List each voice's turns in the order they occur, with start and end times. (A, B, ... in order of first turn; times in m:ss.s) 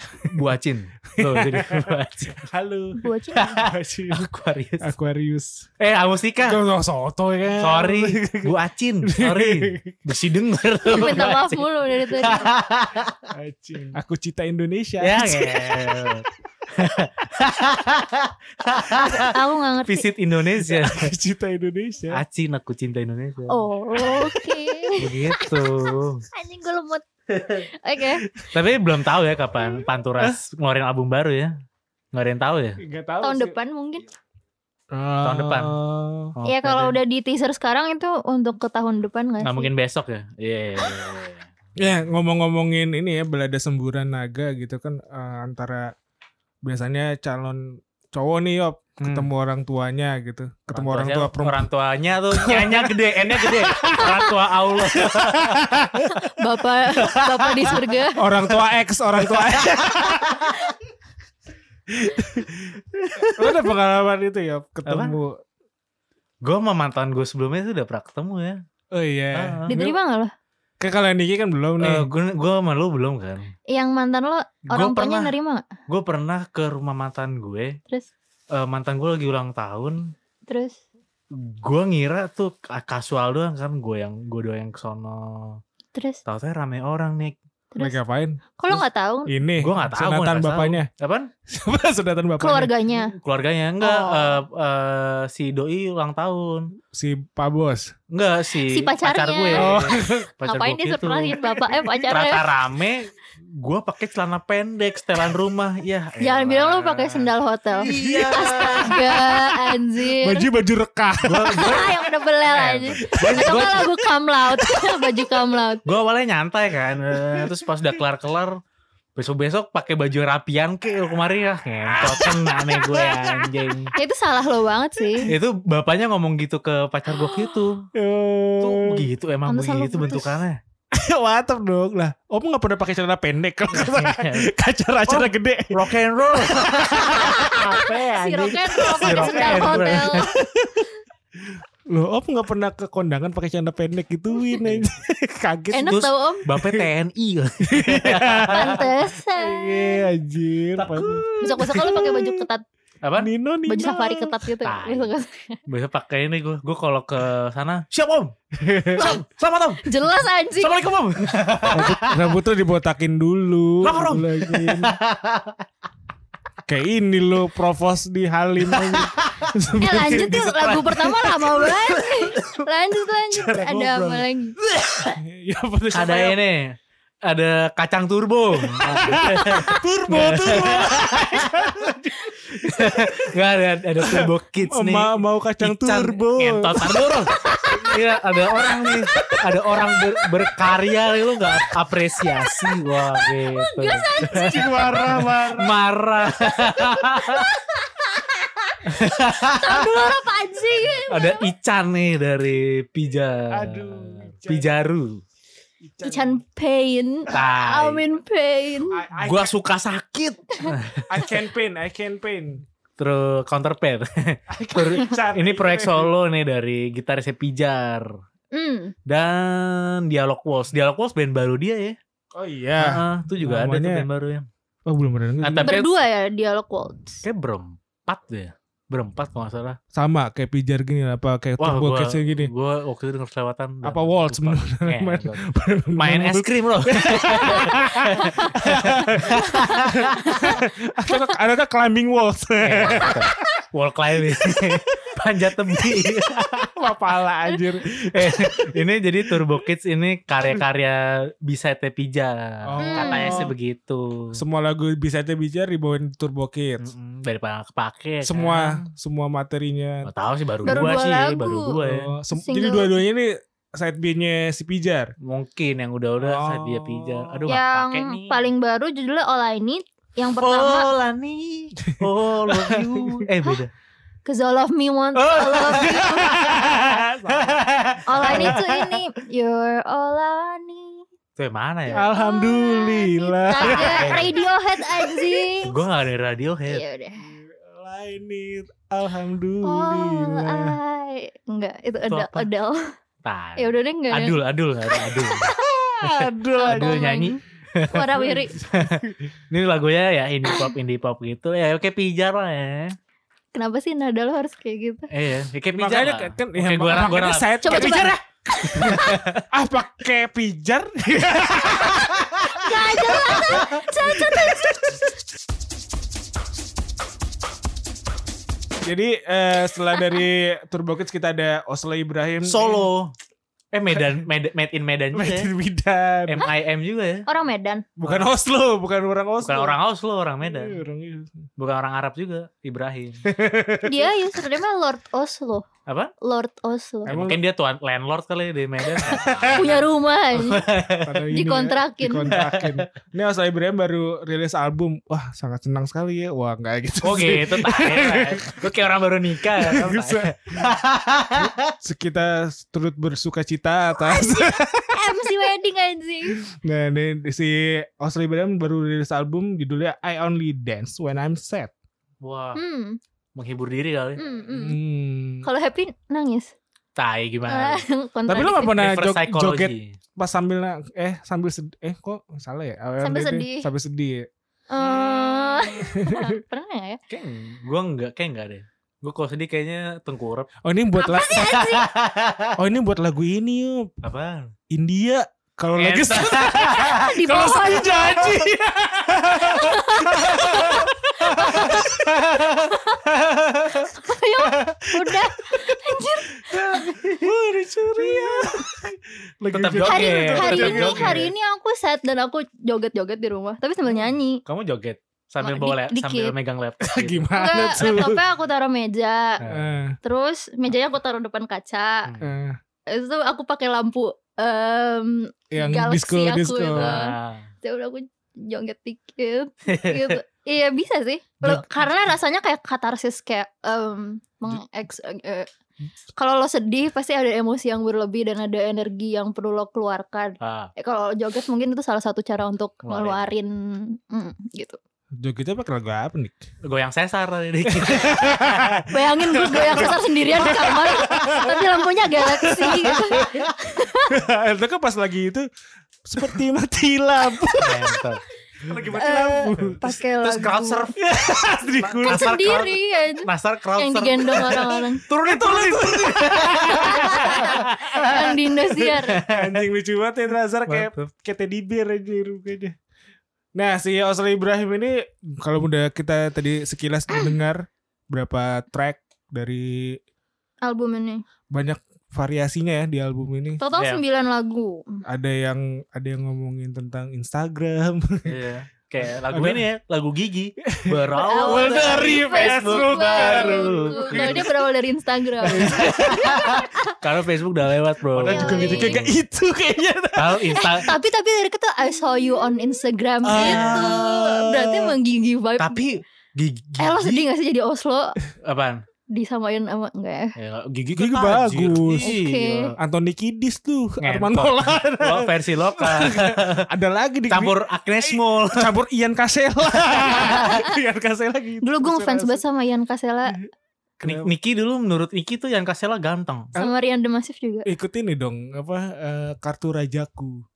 0:00.1-0:00.4 A
0:00.3-0:02.5 B
0:01.1-0:04.3 A
0:03.0-0:03.6 C
0:03.4-0:04.9 B
0:04.8-0:05.7 A
0:05.8-0:06.6 B
0:06.4-0:10.0 A
0:07.6-0:13.2 B
0:10.8-0:12.5 C
0:13.3-0:16.2 A
0:15.0-0:21.1 B
0:18.9-0:20.1 C
0:20.6-0:22.2 A
0:22.1-0:23.6 B
0:23.5-0:28.3 C
0:24.0-0:24.9 A
0:25.0-0:26.2 B
0:28.4-0:31.5 B
0:32.1-0:32.8 B
0:32.8-0:33.6 A
0:33.2-0:34.0 C
0:34.9-0:36.3 A
0:35.2-0:35.8 B
0:36.3-0:37.0 B
0:36.4-0:39.7 C
0:39.4-0:41.5 B
0:41.8-0:45.9 A
0:46.6-0:51.7 A
0:49.0-0:49.3 B
0:50.7-0:55.6 B
0:52.3-0:56.2 A
0:56.2-0:58.2 C
0:57.1-0:57.8 B
0:58.2-1:00.5 A
0:59.3-1:00.5 B
1:01.9-1:05.4 A
1:03.0-1:03.6 B
1:04.8-1:05.2 B
1:06.4-1:08.6 B
1:08.9-1:10.0 A
1:09.3-1:09.8 B
1:09.7-1:10.3 C
1:10.8-1:12.1 A
1:11.8-1:13.5 B
1:13.7-1:15.6 C
1:14.7-1:15.3 B
1:15.9-1:17.8 B
1:18.5-1:20.1 B
1:20.5-1:20.8 C
1:21.3-1:25.6 B
1:25.9-1:26.2 C
1:26.2-1:27.4 B
1:27.7-1:28.0 C
1:27.8-1:30.9 A
1:28.6-1:29.3 C
1:29.6-1:31.3 B
1:31.5-1:32.7 A
1:32.4-1:33.1 C
1:33.0-1:36.8 B
1:33.8-1:34.4 C
1:36.9-1:37.9 A
1:38.1-1:41.4 B
1:38.6-1:42.4 C
1:39.5-1:40.3 A
1:41.4-1:42.1 A
1:42.1-1:49.1 B
1:46.2-1:50.5 C
1:47.8-1:51.9 A
1:51.2-1:52.0 B
1:51.5-1:55.8 C
1:52.5-1:53.9 B
1:53.1-1:55.3 A
1:55.8-1:58.6 B
1:57.1-1:57.7 A
1:59.2-2:03.9 B
2:01.9-2:04.0 A
2:03.9-2:05.3 C
2:05.0-2:05.3 A
2:05.2-2:07.8 B
2:07.9-2:09.1 A
2:08.6-2:10.6 B
2:09.5-2:10.4 C
2:10.9-2:20.9 A
2:13.7-2:14.4 B
2:15.1-2:20.3 B
2:17.0-2:20.4 C
2:21.4-2:26.9 A
2:25.7-2:26.5 C
2:25.8-2:28.9 B
2:27.7-2:32.5 A
2:28.5-2:30.0 C
2:30.8-2:32.1 B
2:31.4-2:32.6 C
2:33.0-2:33.3 B
2:33.2-2:34.5 A
2:33.7-2:35.6 C
2:34.6-2:35.2 B
2:35.7-2:38.3 B
2:38.5-2:39.1 A
2:38.9-2:40.0 B
2:39.8-2:40.7 C
2:40.6-2:42.2 B
2:41.7-2:45.0 A
2:43.8-2:45.6 B
2:46.6-2:51.0 A
2:48.7-2:52.3 B
2:49.8-2:54.6 C
2:53.3-2:54.3 A
2:54.7-2:55.1 B
2:55.1-2:56.4 A
2:55.9-3:01.9 B
2:58.7-3:03.3 A
3:02.6-3:17.5 B
3:04.0-3:07.9 A
3:13.1-3:14.8 C
3:14.2-3:15.8 A
3:16.4-3:21.5 C
3:18.8-3:20.1 B
3:21.1-3:25.2 B
3:23.5-3:24.7 A
3:25.8-3:26.4 A
3:26.0-3:29.0 C
3:27.3-3:28.0 B
3:28.9-3:29.5 A
3:29.2-3:31.1 B
3:31.1-3:32.6 A
3:33.0-3:38.1 B
3:34.5-3:36.1 A
3:38.5-3:38.9 C
3:39.0-3:42.0 B
3:42.3-3:44.0 A
3:42.8-3:44.5 B
3:44.8-3:45.8 A
3:45.4-3:45.9 B
3:45.6-3:47.2 C
3:47.2-3:49.8 B
3:49.9-3:52.5 A
3:51.6-3:55.4 B
3:53.8-4:03.3 A
3:56.0-4:00.4 B
3:58.1-3:58.5 C
3:59.3-4:01.3 C
4:02.6-4:06.7 B
4:04.4-4:04.8 A
4:05.7-4:09.4 A
4:08.1-4:14.4 B
4:12.6-4:13.5 A
4:12.8-4:13.5 C
4:14.3-4:16.9 A
4:16.8-4:18.8 B
4:18.2-4:20.1 A
4:20.0-4:22.1 B
4:20.6-4:21.8 C
4:20.7-4:20.9 A
4:21.8-4:25.1 A
4:22.3-4:23.0 C
4:25.2-4:28.5 B
4:26.2-4:27.6 A
4:27.5-4:30.9 C
4:30.4-4:33.7 B
4:31.9-4:33.3 A
4:34.2-4:36.8 C
4:35.1-4:38.9 B
4:35.5-4:38.7 A
4:38.0-4:41.0 C
4:41.4-4:42.1 B
4:41.9-4:45.5 A
4:41.9-4:45.7 C
4:43.6-4:44.3 B
4:45.6-4:46.8 B
4:46.7-4:47.3 C
4:47.2-4:50.8 A
4:49.6-4:52.9 C
4:52.1-4:52.5 B
4:53.2-5:02.9 B
4:53.6-4:54.4 C
4:54.9-4:55.6 C
4:55.8-4:57.3 A
4:56.5-4:58.6 C
4:58.1-4:59.3 A
5:03.5-5:05.1 C
5:05.1-5:09.4 B
5:05.7-5:08.1 A
5:07.6-5:09.2 C
5:08.7-5:14.6 A
5:12.5-5:15.0 C
5:18.8-5:22.9 A
5:22.4-5:23.1 B
5:23.7-5:25.5 B
5:25.1-5:26.5 A
5:26.3-5:27.3 B
5:27.2-5:27.8 C
5:28.0-5:29.8 A
5:28.0-5:28.3 B
5:29.4-5:30.8 B
5:30.4-5:31.4 A
5:31.6-5:33.2 B
5:33.2-5:34.2 A
5:33.8-5:35.6 C
5:35.9-5:36.1 B
5:36.2-5:37.2 C
5:37.1-5:37.4 A
5:37.1-5:41.2 B
5:39.0-5:40.6 C
5:39.0-5:39.7 A
5:41.0-5:48.6 A
5:41.3-5:42.4 C
5:42.2-5:42.9 B
5:47.0-5:51.7 B
5:49.6-5:50.7 A
5:51.4-5:55.4 A
5:54.0-5:56.4 C
5:56.3-6:01.7 A
6:02.2-6:02.6 B
6:02.5-6:03.0 C
6:03.4-6:04.2 B
6:04.2-6:04.8 C
6:04.5-6:05.5 A
6:05.4-6:06.5 C
6:07.0-6:07.8 B
6:07.5-6:08.8 C
6:08.3-6:14.3 A
6:08.6-6:10.0 B
6:13.0-6:13.7 C
6:14.7-6:17.0 C
6:15.0-6:15.7 B
6:15.7-6:16.4 A
6:17.1-6:20.5 B
6:20.6-6:21.6 A
6:21.0-6:21.9 C
6:21.5-6:22.5 B
6:22.6-6:23.9 A
6:24.0-6:24.5 B
6:24.7-6:32.5 A
6:25.8-6:27.1 B
6:26.7-6:28.4 C
6:29.4-6:31.9 C
6:30.4-6:30.7 B
6:31.3-6:33.9 B
6:32.7-6:33.0 C
6:33.9-6:37.0 C
6:34.5-6:41.3 A
6:36.6-6:37.3 B
6:38.0-6:38.6 B
6:39.5-6:41.3 B
6:39.8-6:44.4 C
6:44.4-6:47.3 B
6:45.4-6:46.3 C
6:46.8-6:48.2 A
6:47.3-6:49.4 C
6:49.4-6:49.7 B
6:49.4-6:50.0 A
6:50.0-6:52.1 C
6:52.0-6:52.3 B
6:52.2-6:52.6 A
6:52.9-7:05.5 C
6:55.5-6:57.0 A
6:56.7-6:57.5 B
6:59.7-7:00.2 B
7:06.2-7:14.8 C
7:10.4-7:10.7 B
7:12.8-7:13.3 B
7:15.2-7:16.4 A
7:16.6-7:18.9 B
7:17.6-7:23.5 A
7:18.9-7:24.1 C
7:19.6-7:19.9 B
7:24.1-7:25.5 A
7:26.0-7:28.0 A
7:27.6-7:38.3 B
7:28.6-7:29.9 A
7:28.9-7:30.9 C
7:31.0-7:32.5 A
7:32.0-7:35.1 C
7:35.3-7:38.3 A
7:36.7-7:39.2 C
7:38.8-7:39.6 B
7:38.8-7:42.8 A
7:40.7-7:41.1 B
7:43.5-7:50.0 A
7:50.6-7:51.2 C
7:51.5-7:53.6 A
7:53.6-7:55.0 C
7:53.8-7:54.0 B
7:55.0-7:58.4 A
7:58.2-8:04.5 B
7:59.1-7:59.6 A
8:00.6-8:04.6 A
8:01.1-8:07.0 C
8:05.4-8:06.7 A
8:05.4-8:09.2 B
8:08.1-8:10.9 A
8:08.2-8:09.0 C
8:10.2-8:10.9 B
8:10.5-8:15.8 C
8:13.2-8:14.2 A
8:13.3-8:14.9 B
8:15.6-8:17.3 B
8:16.8-8:18.2 C
8:18.4-8:18.8 B
8:19.1-8:20.3 C
8:20.4-8:22.8 B
8:20.9-8:22.2 A
8:22.0-8:22.7 C
8:22.8-8:32.4 A
8:24.0-8:26.7 B
8:27.3-8:28.7 B
8:30.0-8:30.7 C
8:31.6-8:33.4 C
8:34.0-8:34.3 A
8:34.0-8:36.5 B
8:36.6-8:37.7 C
8:37.6-8:40.4 A